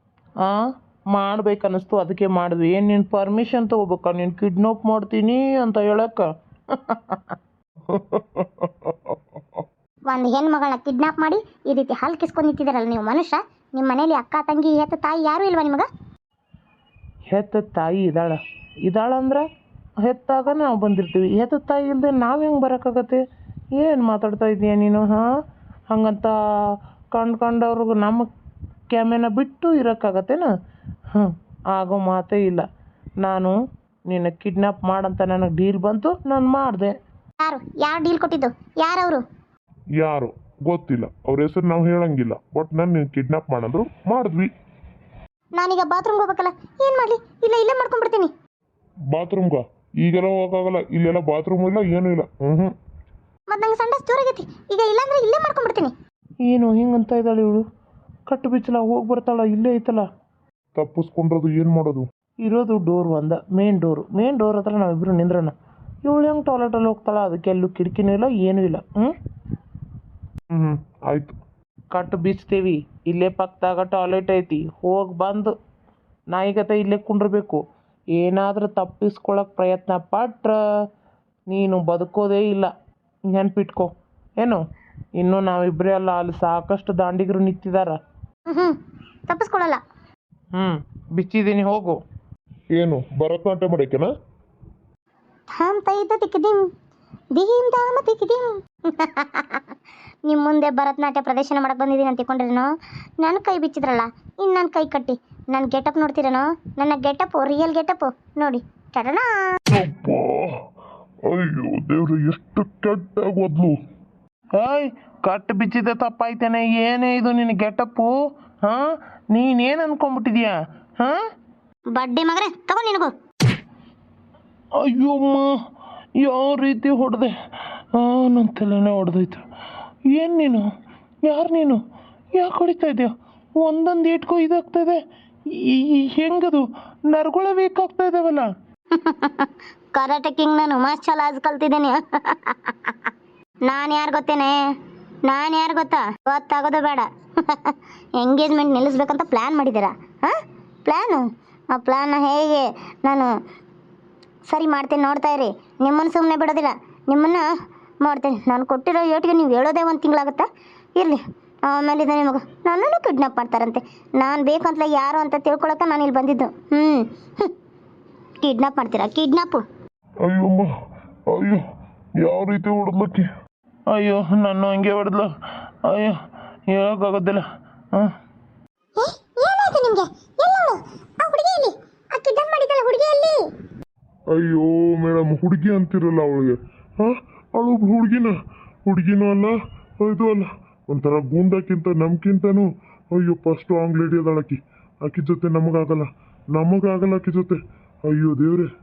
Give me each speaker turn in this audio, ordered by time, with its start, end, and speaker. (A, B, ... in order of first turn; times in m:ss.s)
0:01.1-0:07.4 A
0:07.9-0:09.6 B
0:10.1-0:15.9 C
0:17.3-0:19.4 A
0:20.0-0:23.2 A
0:23.8-0:25.3 A
0:25.9-0:26.4 A
0:27.1-0:28.3 A
0:28.9-0:30.5 A
0:31.1-0:32.6 A
0:33.2-0:33.6 A
0:34.1-0:36.9 A
0:37.4-0:39.2 C
0:40.0-0:44.5 B
0:45.6-0:48.3 C
0:49.1-0:52.7 B
0:53.5-0:55.9 C
0:56.4-0:57.6 A
0:58.3-1:00.1 A
1:00.8-1:02.1 B
1:02.4-1:05.5 A
1:06.1-1:09.1 A
1:10.5-1:11.4 B
1:11.9-1:15.5 A
1:16.3-1:17.6 A
1:18.2-1:20.6 A
1:21.5-1:22.7 A
1:23.3-1:24.6 A
1:25.2-1:28.0 A
1:28.5-1:28.8 C
1:29.3-1:29.8 C
1:30.6-1:32.0 A
1:32.7-1:34.1 B
1:35.5-1:36.7 C
1:37.4-1:39.7 C
1:40.3-1:49.6 C
1:49.7-1:50.6 B
1:51.2-1:53.8 B
1:54.6-2:01.2 A
2:01.9-2:03.1 C
2:04.8-2:05.5 A
2:06.2-2:07.3 A
2:08.0-2:09.4 A
2:10.1-2:10.7 A
2:11.2-2:11.8 A
2:12.4-2:15.0 A
2:15.5-2:18.5 A
2:18.9-2:23.1 C
2:23.6-2:33.3 C
2:34.5-2:37.5 C
2:38.0-2:47.5 C
2:48.4-2:49.6 C
2:50.2-2:50.7 B
2:51.3-2:51.6 B
2:52.2-2:53.3 B
2:53.9-2:55.3 A
2:55.9-2:57.4 A
2:59.0-3:03.4 C
3:04.3-3:18.7 B